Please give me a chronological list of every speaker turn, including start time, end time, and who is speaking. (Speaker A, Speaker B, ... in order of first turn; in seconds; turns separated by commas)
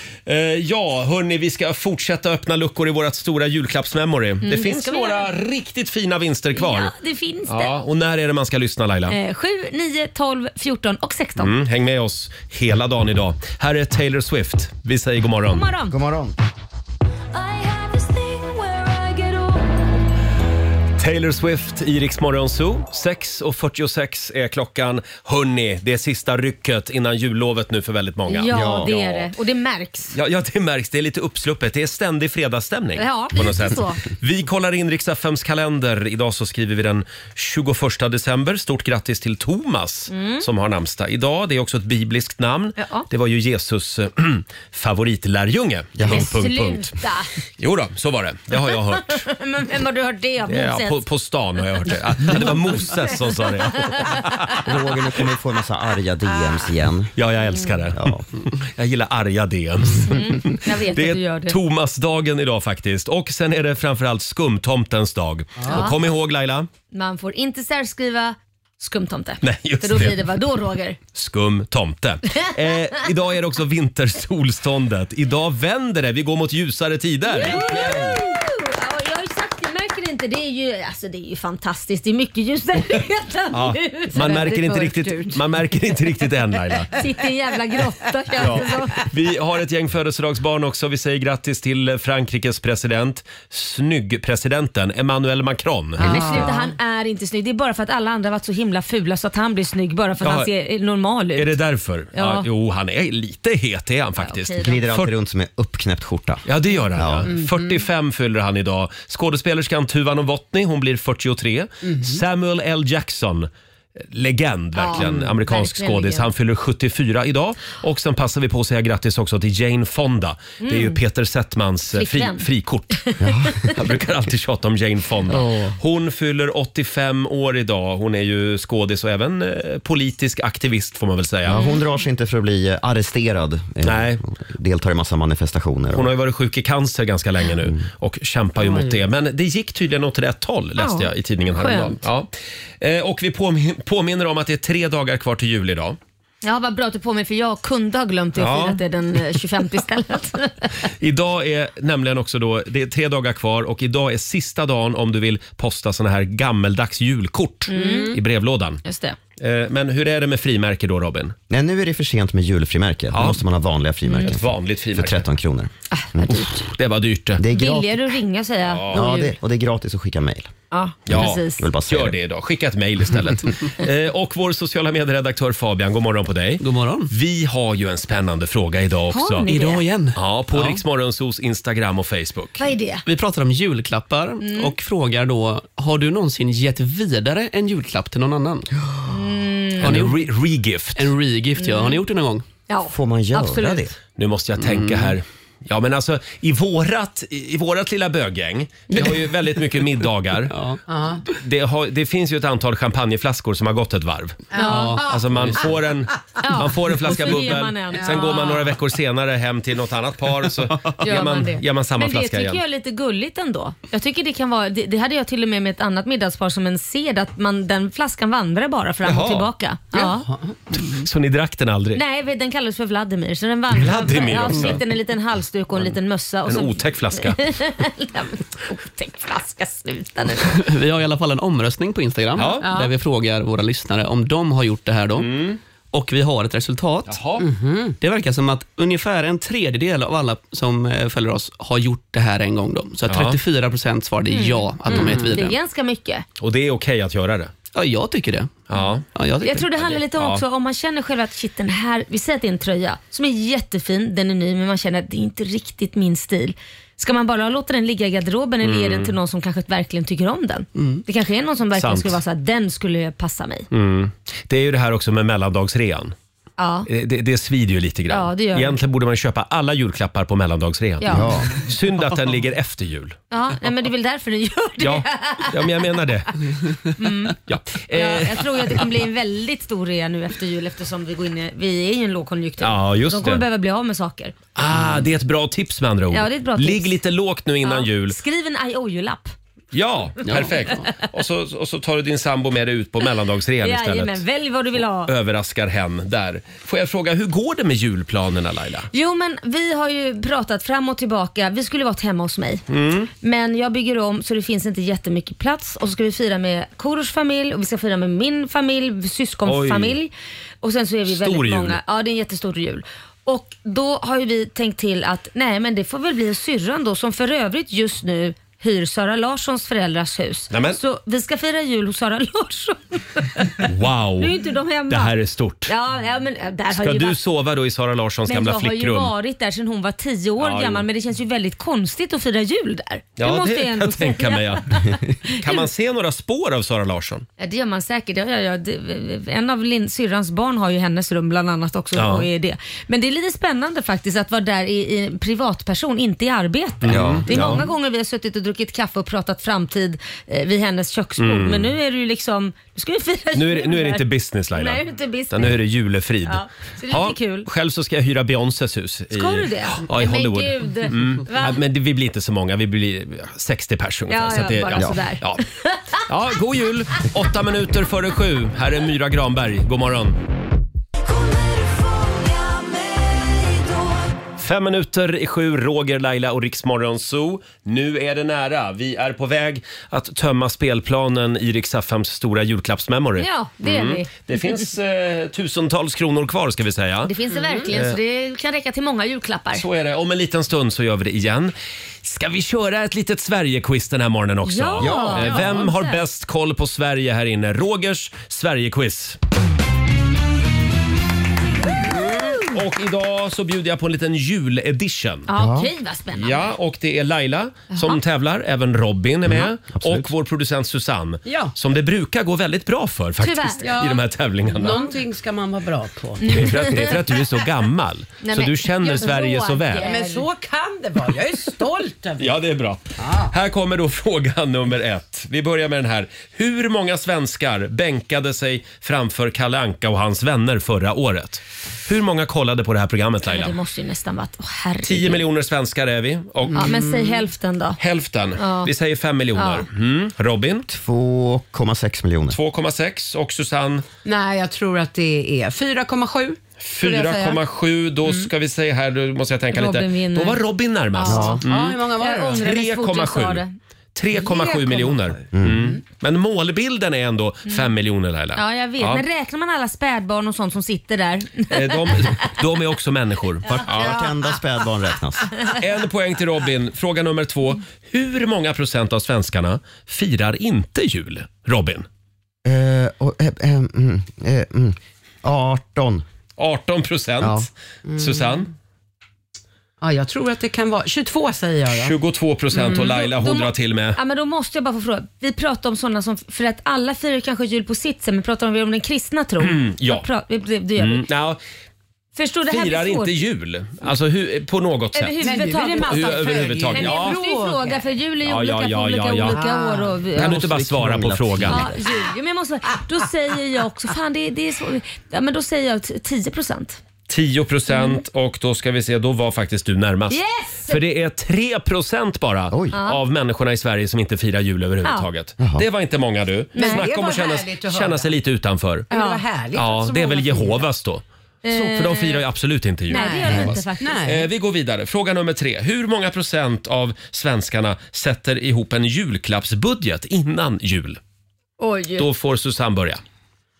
Speaker A: 0.2-6.9, Speaker B: 4.4-5.3, Speaker B: 6.5-7.7, Speaker A: 7.5-9.2, Speaker B: 9.1-11.5, Speaker A: 11.4-15.6, Speaker B: 15.5-15.9, Speaker C: 15.9-16.4, Speaker B: 17.3-19.7, Speaker A: 21.0-29.3, Speaker B: 28.3-30.1, Speaker C: 28.5-28.9, Speaker A: 30.1-47.0, Speaker B: 33.0-34.0, Speaker B: 40.1-40.5, Speaker B: 42.8-43.1, Speaker C: 46.0-46.3, Speaker B: 46.0-47.3, Speaker A: 47.6-49.2, Speaker B: 48.5-51.0, Speaker A: 50.5-54.7, Speaker B: 52.4-54.2, Speaker C: 54.6-57.1, Speaker A: 57.2-66.7, Speaker C: 57.9-58.2, Speaker B: 60.0-61.6, Speaker B: 65.7-66.0, Speaker B: 66.9-71.0, Speaker A: 69.4-70.2, Speaker A: 71.1-78.0, Speaker B: 77.3-85.4, Speaker C: 77.5-78.1, Speaker A: 83.5-86.9, Speaker B: 86.9-89.1, Speaker A: 88.4-96.0, Speaker B: 96.0-101.5, Speaker D: 96.0-96.7, Speaker C: 96.1-96.5, Speaker A: 100.2-100.5, Speaker A: 101.3-105.1, Speaker B: 102.1-102.5, Speaker B: 104.2-104.8, Speaker C: 104.6-106.4, Speaker A: 106.5-113.5, Speaker C: 107.0-107.3, Speaker D: 107.3-107.8, Speaker D: 111.8-112.2, Speaker A: 114.0-123.0, Speaker B: 114.8-116.3, Speaker B: 120.6-121.0, Speaker B: 121.9-123.7, Speaker C: 123.2-123.7, Speaker A: 123.6-131.6, Speaker C: 125.5-125.7, Speaker C: 131.4-136.1, Speaker B: 131.5-131.8, Speaker A: 133.8-134.2, Speaker A: 135.9-146.0, Speaker B: 140.8-141.9, Speaker B: 146.4-150.7, Speaker A: 148.4-148.8, Speaker A: 151.0-158.8, Speaker B: 157.7-158.1, Speaker D: 157.7-158.2, Speaker B: 158.8-159.2, Speaker A: 159.4-161.3, Speaker C: 161.5-166.5, Speaker A: 163.1-163.4, Speaker B: 164.1-164.3, Speaker A: 164.2-165.2, Speaker B: 165.9-166.5, Speaker A: 166.7-167.4, Speaker C: 167.4-168.0, Speaker B: 167.5-169.3, Speaker A: 168.6-169.0, Speaker C: 168.9-170.5, Speaker B: 170.7-171.7, Speaker A: 171.1-179.5, Speaker C: 171.1-172.1, Speaker E: 176.6-177.1, Speaker B: 179.1-179.8, Speaker E: 179.5-180.8, Speaker A: 180.2-182.6, Speaker B: 182.6-183.0, Speaker E: 183.0-188.7, Speaker B: 184.4-184.7, Speaker B: 189.1-190.0, Speaker E: 189.8-190.2, Speaker A: 189.8-191.1, Speaker E: 190.9-192.4, Speaker B: 191.6-192.0, Speaker B: 192.7-193.8, Speaker C: 192.9-193.9, Speaker A: 194.2-200.5, Speaker E: 194.6-195.1, Speaker E: 198.9-199.3, Speaker E: 200.5-200.8, Speaker D: 200.9-201.2, Speaker A: 201.3-212.6, Speaker D: 204.5-205.2, Speaker B: 204.5-205.0, Speaker E: 204.6-205.6, Speaker B: 206.4-208.7, Speaker D: 208.0-208.5, Speaker B: 211.0-220.3, Speaker A: 219.0-219.5, Speaker D: 219.9-220.6, Speaker A: 220.7-222.0, Speaker B: 221.9-230.6, Speaker A: 223.7-224.8, Speaker A: 226.4-227.4, Speaker E: 230.5-235.3, Speaker A: 232.3-232.7, Speaker D: 232.6-232.9, Speaker A: 235.2-235.6, Speaker E: 235.9-237.2, Speaker A: 237.1-237.4, Speaker D: 237.4-237.9, Speaker E: 238.0-245.6, Speaker A: 243.1-243.4, Speaker B: 244.3-246.2, Speaker A: 246.4-247.5, Speaker E: 247.7-249.8, Speaker A: 248.7-249.1, Speaker B: 249.4-263.7, Speaker A: 249.8-250.4, Speaker A: 258.6-259.1, Speaker E: 260.8-261.0, Speaker A: 261.8-262.2, Speaker A: 263.7-266.1, Speaker B: 266.6-266.9, Speaker A: 266.9-273.1, Speaker B: 268.1-268.8, Speaker B: 271.0-271.4, Speaker C: 271.1-271.6, Speaker B: 273.3-275.7, Speaker A: 274.8-276.3, Speaker B: 276.9-277.4, Speaker A: 277.5-278.8, Speaker B: 277.9-284.3, Speaker A: 282.6-283.4, Speaker A: 284.6-288.1, Speaker B: 286.1-286.9, Speaker B: 287.6-289.3, Speaker A: 289.7-294.2, Speaker E: 290.2-290.5, Speaker B: 293.6-295.1, Speaker A: 295.0-298.9, Speaker B: 298.9-302.6, Speaker A: 302.7-303.1, Speaker B: 303.2-325.1, Speaker A: 309.4-310.0, Speaker A: 311.1-311.8, Speaker A: 320.5-320.8, Speaker A: 323.6-324.4, Speaker A: 324.9-325.7, Speaker B: 325.7-327.2, Speaker A: 326.7-329.1, Speaker B: 328.3-335.7, Speaker A: 330.4-330.9, Speaker A: 333.2-337.3, Speaker B: 337.4-355.6, Speaker A: 341.9-342.3, Speaker A: 346.8-347.6, Speaker C: 346.9-347.7, Speaker A: 351.2-351.7, Speaker A: 353.3-365.4, Speaker B: 356.2-357.5, Speaker B: 359.1-361.6, Speaker B: 364.1-366.0, Speaker A: 366.0-370.2, Speaker B: 371.6-372.8, Speaker A: 374.4-387.1, Speaker B: 383.2-384.1, Speaker B: 387.0-389.6, Speaker D: 387.4-387.7, Speaker A: 387.7-388.0, Speaker A: 389.5-399.2, Speaker B: 394.4-396.0, Speaker C: 394.8-395.2, Speaker A: 401.8-405.3, Speaker B: 405.3-406.5, Speaker C: 405.4-405.7, Speaker A: 406.1-414.9, Speaker B: 407.7-408.0, Speaker C: 409.3-410.1, Speaker D: 411.2-411.5, Speaker B: 413.2-413.8, Speaker D: 413.6-416.8, Speaker B: 416.2-416.9, Speaker A: 416.3-419.9, Speaker B: 418.2-420.2, Speaker D: 419.8-422.3, Speaker A: 422.2-433.6, Speaker D: 423.0-423.3, Speaker B: 433.2-435.2, Speaker A: 434.8-436.7, Speaker D: 436.5-437.2, Speaker B: 436.6-437.8, Speaker A: 437.8-440.6, Speaker B: 438.4-438.7, Speaker B: 439.4-439.6, Speaker C: 440.7-442.4, Speaker A: 442.3-443.9, Speaker D: 444.0-447.4, Speaker A: 446.6-459.0, Speaker B: 449.5-450.4, Speaker B: 451.0-451.4, Speaker D: 451.0-452.4, Speaker C: 451.1-451.4, Speaker B: 452.0-453.5, Speaker D: 454.1-455.7, Speaker C: 455.3-455.7, Speaker B: 458.3-462.2, Speaker A: 461.5-464.0, Speaker C: 463.5-465.4, Speaker A: 465.5-471.9, Speaker C: 472.4-476.0, Speaker A: 476.4-478.5, Speaker C: 477.2-477.5, Speaker D: 477.8-478.4, Speaker D: 479.8-482.0, Speaker A: 481.7-484.0, Speaker D: 482.5-483.0, Speaker B: 482.9-491.1, Speaker A: 489.4-490.1, Speaker A: 490.8-491.4, Speaker B: 492.1-493.2, Speaker A: 492.5-497.2, Speaker B: 494.9-500.4, Speaker D: 495.2-497.8, Speaker A: 498.2-499.4, Speaker D: 499.3-500.0, Speaker C: 500.1-501.8, Speaker A: 500.1-501.7, Speaker B: 501.5-506.8, Speaker A: 507.1-518.9, Speaker B: 507.7-508.0, Speaker B: 510.1-510.8, Speaker C: 512.5-512.8, Speaker B: 512.7-513.0, Speaker C: 515.4-515.6, Speaker D: 516.5-518.1, Speaker B: 516.5-516.9, Speaker D: 518.9-520.6, Speaker B: 518.9-519.2, Speaker A: 519.5-531.0, Speaker B: 521.4-522.2, Speaker B: 522.9-524.0, Speaker D: 522.9-524.3, Speaker B: 531.6-532.1, Speaker A: 532.0-533.0